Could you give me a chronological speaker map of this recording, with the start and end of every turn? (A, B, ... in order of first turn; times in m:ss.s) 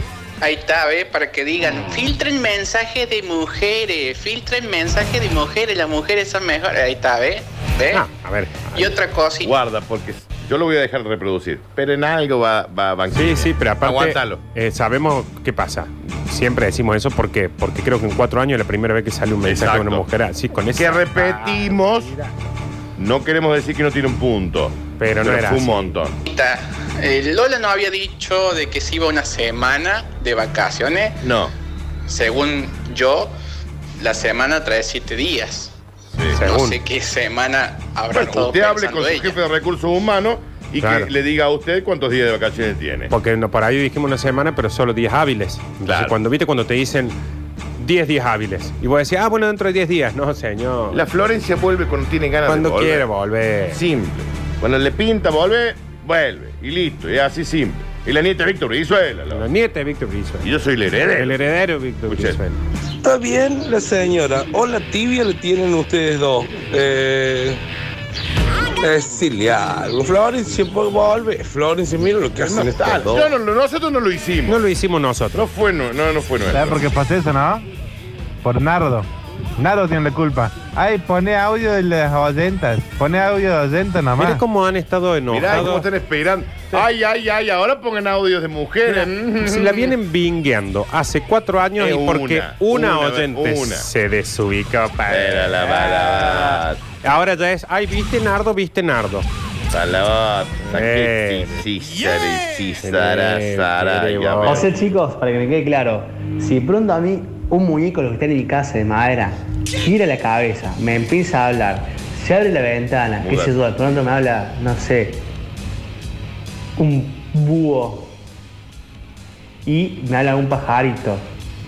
0:00.4-0:08.1 A
0:07.9-0:08.9 B
0:08.7-0:09.5 A
0:09.4-0:14.4 C
0:13.1-0:22.3 B
0:19.4-0:20.0 C
0:20.8-0:22.1 C
0:23.0-0:26.2 C
0:25.0-0:25.9 B
0:26.3-0:31.2 A
0:31.2-0:31.5 C
0:32.1-0:33.3 A
0:34.0-0:35.8 A
0:36.3-0:36.8 B
0:36.4-0:39.4 A
0:38.1-0:43.1 C
0:40.8-0:41.1 B
0:43.1-0:47.2 B
0:45.8-0:46.2 C
0:47.8-0:51.0 B
0:50.9-0:53.1 C
0:52.5-0:53.8 B
0:53.7-0:59.5 C
0:59.3-1:00.5 B
1:00.4-1:01.4 C
1:01.0-1:02.6 B
1:02.1-1:02.4 C
1:03.0-1:07.6 D
1:08.8-1:13.3 D
1:12.4-1:14.6 C
1:14.5-1:15.5 B
1:15.3-1:16.9 C
1:16.5-1:17.6 E
1:18.4-1:24.4 E
1:24.2-1:25.9 B
1:25.3-1:30.0 C
1:28.9-1:39.3 B
1:31.8-1:33.9 C
1:35.1-1:36.8 C
1:39.7-1:44.9 C
1:40.7-1:41.6 B
1:42.8-1:44.7 B
1:44.4-1:55.3 F
1:53.2-1:53.6 C
1:56.8-1:58.1 F
1:59.6-2:01.2 F